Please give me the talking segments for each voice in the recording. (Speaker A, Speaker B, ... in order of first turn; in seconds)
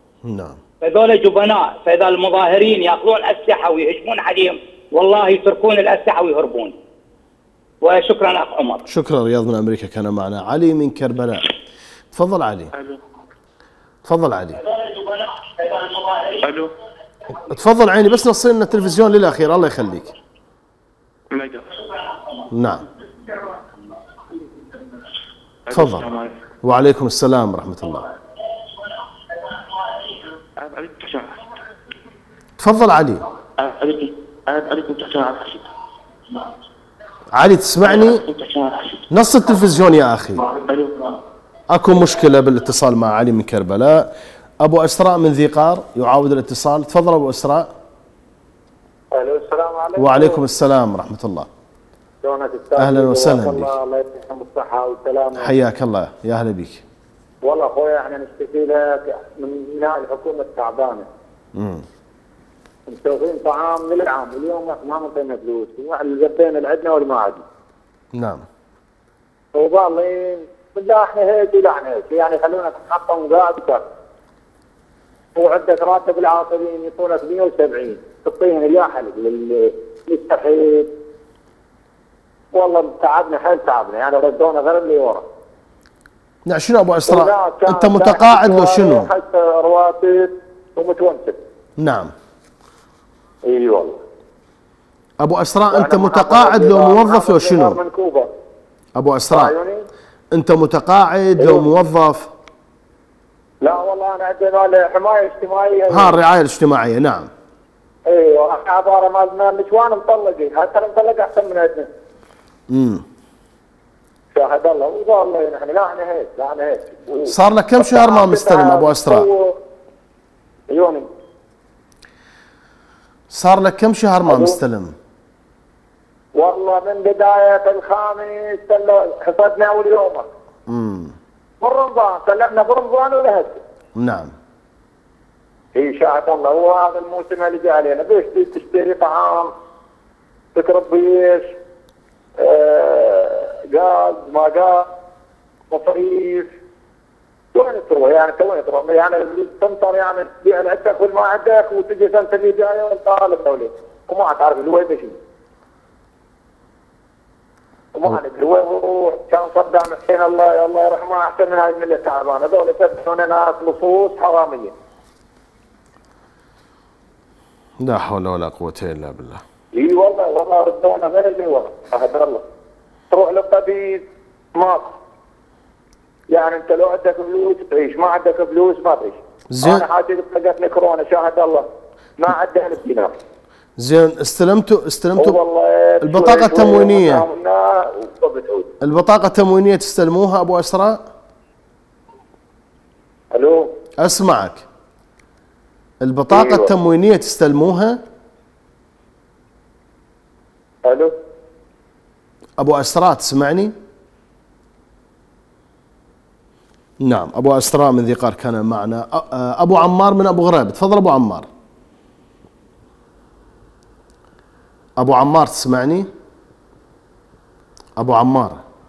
Speaker A: 0.2-0.6, 8.9-11.5, 12.1-12.7, 14.1-14.6, 17.4-20.1, 22.5-22.8, 25.7-26.1, 26.6-28.1, 32.6-33.2, 37.3-38.2, 39.1-40.4, 41.7-47.7, 50.0-51.5, 52.8-53.7, 55.4-56.8, 61.6-61.9, 68.1-68.5, 86.5-89.1, 91.8-92.1, 95.2-97.8, 99.0-99.6, 100.3-102.3, 105.9-107.3, 112.7-113.0, 117.3-119.3, 123.3-125.0, 130.7-131.2, 134.0-134.3, 167.8-169.4, 179.5-179.9, 183.8-185.4, 186.0-187.3, 188.8-191.1, 194.0-194.7, 196.0-198.0, 202.6-203.7, 207.0-211.5, 215.0-216.1, 218.0-218.6
Speaker B: 0.8-6.8, 7.8-8.8
Speaker C: 12.7-13.0, 16.3-16.7, 21.3-22.1, 25.7-26.4, 30.1-31.4, 33.6-35.7, 37.8-39.0, 40.4-41.2
Speaker D: 49.1-50.4, 52.2-55.5, 57.4-61.1, 62.9-67.4, 69.5-73.8, 75.3-80.9, 82.5-85.2, 87.1-91.4, 93.5-94.0, 95.7-98.3, 99.3-99.8, 101.4-101.6, 103.6-106.2, 108.1-111.9, 114.3-119.6, 120.7-121.1, 124.3-124.6, 126.4-130.3, 131.6-133.6, 135.8-139.5, 140.6-141.5, 142.4-144.9, 145.7-146.5, 147.5-155.2, 157.9-164.7, 169.7-172.4, 173.1-174.9, 176.3-181.7, 182.2-183.1, 185.2-188.7, 193.3-193.7, 196.3-196.7, 200.8-201.1